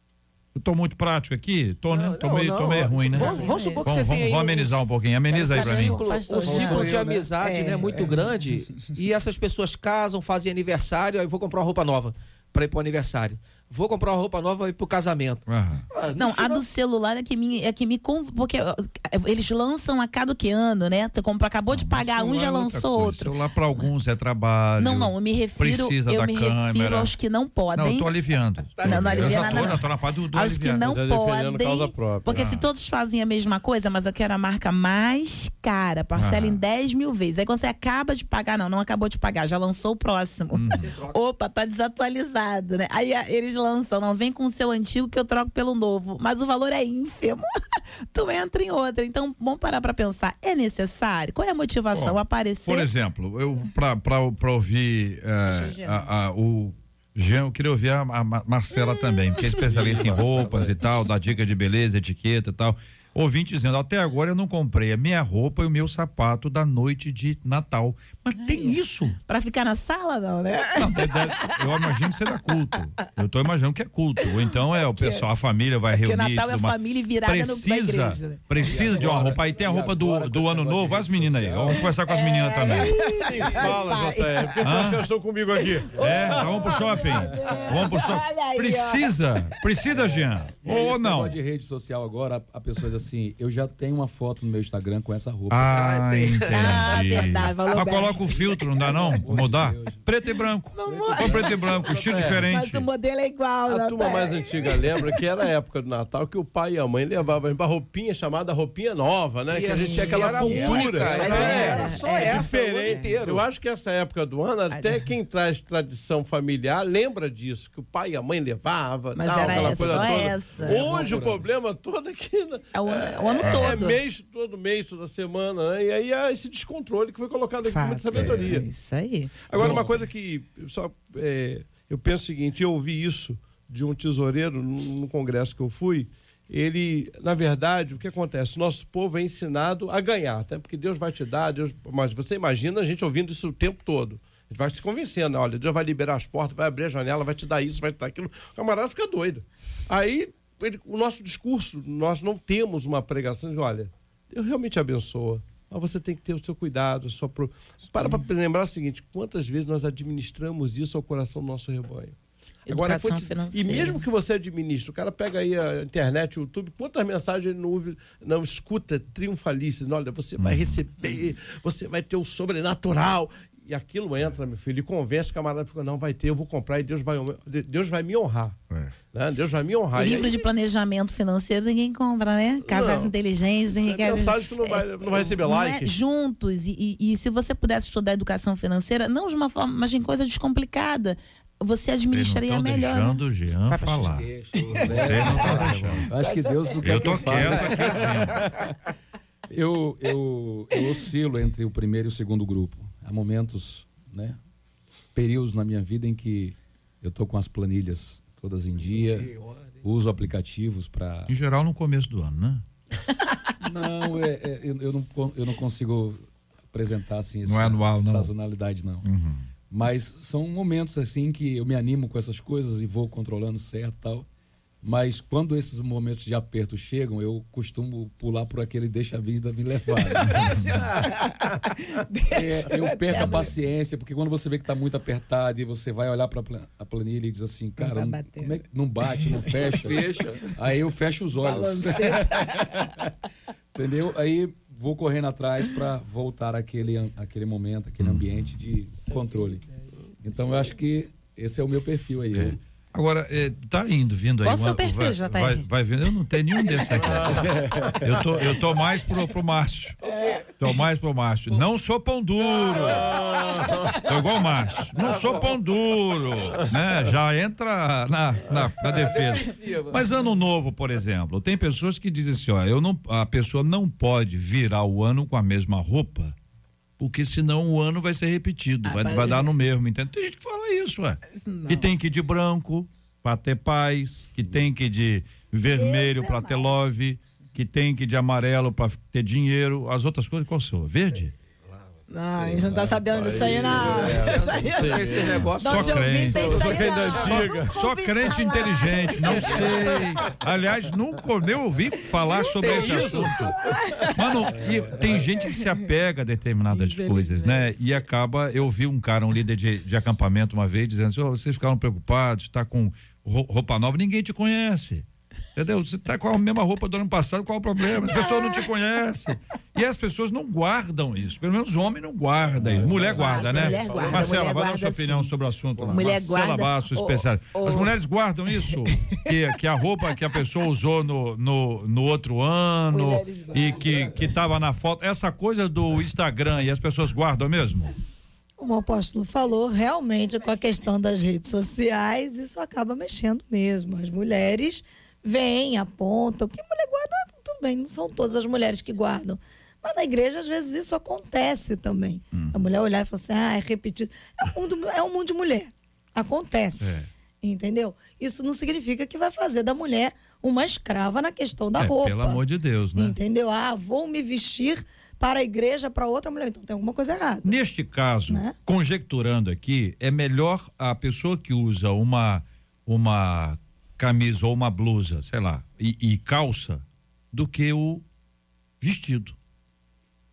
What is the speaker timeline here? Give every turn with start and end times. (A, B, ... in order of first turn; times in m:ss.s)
0:00.5-0:06.0 A
0:01.9-0:16.6 B
0:03.1-0:03.9 C
0:05.3-0:08.1 C
0:06.4-0:07.3 D
0:06.6-0:06.9 E
0:07.8-0:08.2 D
0:15.5-0:15.8 A
0:16.2-0:23.9 C
0:21.7-0:27.1 A
0:24.8-0:28.1 C
0:27.7-0:30.8 A
0:28.7-0:29.7 B
0:28.8-0:52.9 C
0:28.9-0:29.8 E
0:30.8-0:32.5 E
0:32.3-0:32.7 A
0:36.2-0:36.6 A
0:40.5-0:40.9 A
0:40.7-0:41.2 B
0:51.9-1:09.2 A
0:55.4-0:56.1 C
0:59.6-1:00.8 E
1:08.3-1:12.1 C
1:10.8-1:23.0 A
1:12.7-1:13.0 C
1:14.2-1:15.2 C
1:15.9-1:18.4 C
1:18.6-1:21.9 D
1:22.0-1:24.7 C
1:22.7-1:27.6 E
1:24.6-1:25.1 A
1:25.6-1:29.1 C
1:26.0-1:31.4 A
1:29.9-1:36.0 D
1:35.5-1:42.8 A
1:35.7-1:37.0 B
1:36.5-1:38.2 C
1:38.0-1:40.1 D
1:40.7-1:41.9 C
1:40.8-1:41.8 D
1:41.8-1:42.5 E
1:42.4-1:45.2 C
1:43.7-2:08.6 E
1:49.5-1:53.4 B
1:49.7-1:53.1 C
1:54.7-1:55.0 C
1:59.2-2:00.8 C
1:59.4-2:01.5 D
2:02.7-2:04.0 C
2:07.6-2:09.4 C
2:08.1-2:08.5 D
2:09.5-2:42.2 E
2:09.5-2:09.9 D
2:42.7-2:44.0 C
2:42.7-2:58.6 E
2:50.4-2:50.8 A
2:59.1-3:00.4 E
2:59.9-3:14.2 C
3:02.7-3:03.1 E
3:03.8-3:05.9 E
3:12.1-3:16.1 A
3:14.3-3:18.5 D
3:14.4-3:15.0 B
3:16.8-3:18.4 A
3:17.2-3:18.2 B
3:19.5-3:24.4 D
3:25.1-3:29.3 D
3:28.8-3:29.8 B
3:29.8-3:31.3 D
3:31.3-3:32.6 A
3:33.6-3:36.2 D
3:36.7-3:39.0 D
3:37.4-3:38.3 A
3:39.0-3:39.5 A
3:39.7-3:44.3 D
3:44.8-3:50.6 D
3:50.2-3:53.5 C
3:52.3-4:03.1 D
3:57.8-3:58.6 C
3:59.5-4:00.5 B
4:01.4-4:02.8 C
4:03.7-4:09.6 D
4:08.0-4:08.5 A
4:10.2-4:12.6 D
4:12.3-4:20.0 A
4:14.4-4:17.0 C
4:20.1-4:20.5 B
4:20.6-4:23.2 A
4:23.0-4:23.9 E
4:23.1-4:23.9 B
4:23.9-4:36.3 A
4:25.0-4:25.6 B
4:28.4-4:30.1 B
4:37.0-4:51.3 A
4:38.8-4:39.5 C
4:41.3-4:41.9 C
4:45.7-4:46.8 F
4:52.1-4:59.8 C
4:52.3-4:53.8 D
4:53.1-4:55.6 E
4:53.8-4:57.4 B
4:55.6-5:03.6 A
4:56.3-4:57.8 E
5:02.4-5:04.3 C
5:02.6-5:03.4 B
5:04.1-5:37.9 A
5:05.4-5:05.7 C
5:06.7-5:08.0 C
5:18.0-5:18.6 C
5:22.6-5:24.3 E
5:23.0-5:25.3 C
5:25.9-5:27.9 C
5:28.6-5:30.4 C
5:32.9-5:34.2 C
5:38.6-6:02.4 F
5:52.3-5:52.6 A
5:56.8-5:57.1 A
6:01.8-6:03.2 A
6:02.9-6:07.6 F
6:07.4-6:18.0 A
6:08.3-6:08.6 F
6:18.8-6:19.4 A